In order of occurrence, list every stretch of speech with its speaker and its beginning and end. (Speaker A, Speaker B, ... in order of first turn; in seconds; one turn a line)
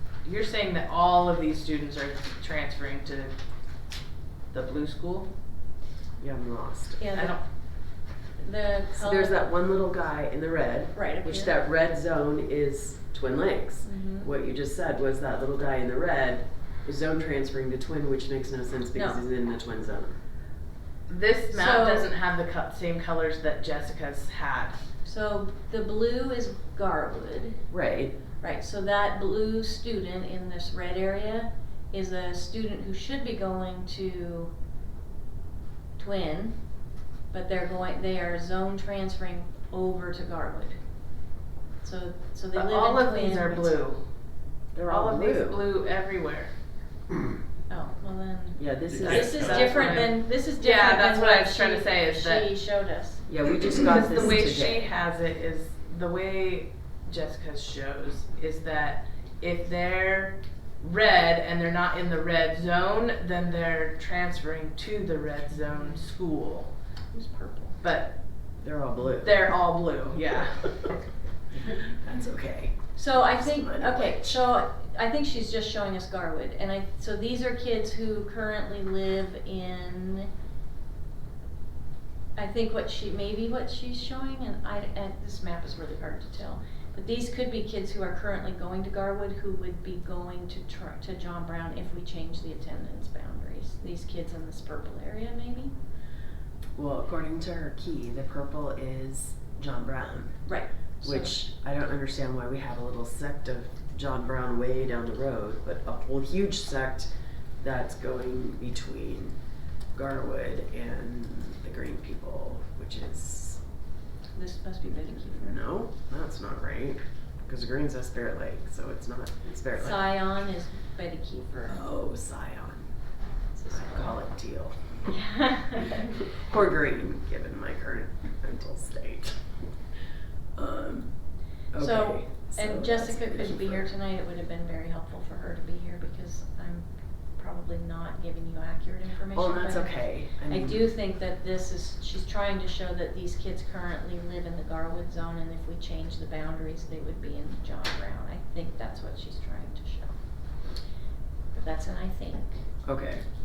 Speaker A: 0.2-3.3
Speaker A: 4.5-5.3
Speaker B: 6.2-7.0
Speaker C: 7.0-9.4
Speaker A: 7.1-7.4
Speaker B: 8.9-20.2
Speaker C: 10.9-11.5
Speaker C: 13.8-14.3
Speaker C: 18.9-19.2
Speaker A: 21.1-24.8
Speaker C: 21.5-22.1
Speaker C: 25.0-27.6
Speaker B: 27.7-28.1
Speaker C: 28.4-34.5
Speaker C: 36.0-36.6
Speaker C: 37.3-40.8
Speaker C: 41.8-43.8
Speaker A: 42.5-44.0
Speaker B: 44.7-45.7
Speaker A: 44.8-46.5
Speaker C: 47.7-53.2
Speaker B: 48.6-50.0
Speaker A: 49.0-52.5
Speaker B: 53.3-54.9
Speaker A: 53.8-66.7
Speaker C: 65.7-66.0
Speaker C: 67.1-67.8
Speaker A: 67.8-68.2
Speaker B: 68.6-69.9
Speaker A: 69.2-70.7
Speaker B: 71.9-74.4
Speaker C: 72.9-80.3
Speaker C: 82.3-95.7
Speaker B: 96.7-109.4
Speaker C: 100.4-101.4
Speaker B: 109.9-113.6
Speaker C: 114.3-115.6
Speaker B: 114.8-120.2
Speaker C: 119.8-121.8
Speaker B: 121.7-123.0
Speaker C: 123.5-124.2
Speaker B: 123.7-125.1
Speaker C: 125.1-126.0
Speaker B: 126.3-129.4
Speaker B: 130.6-131.1
Speaker B: 131.7-133.9
Speaker C: 131.8-150.2
Speaker B: 139.3-140.9
Speaker C: 151.5-152.6
Speaker B: 152.8-153.2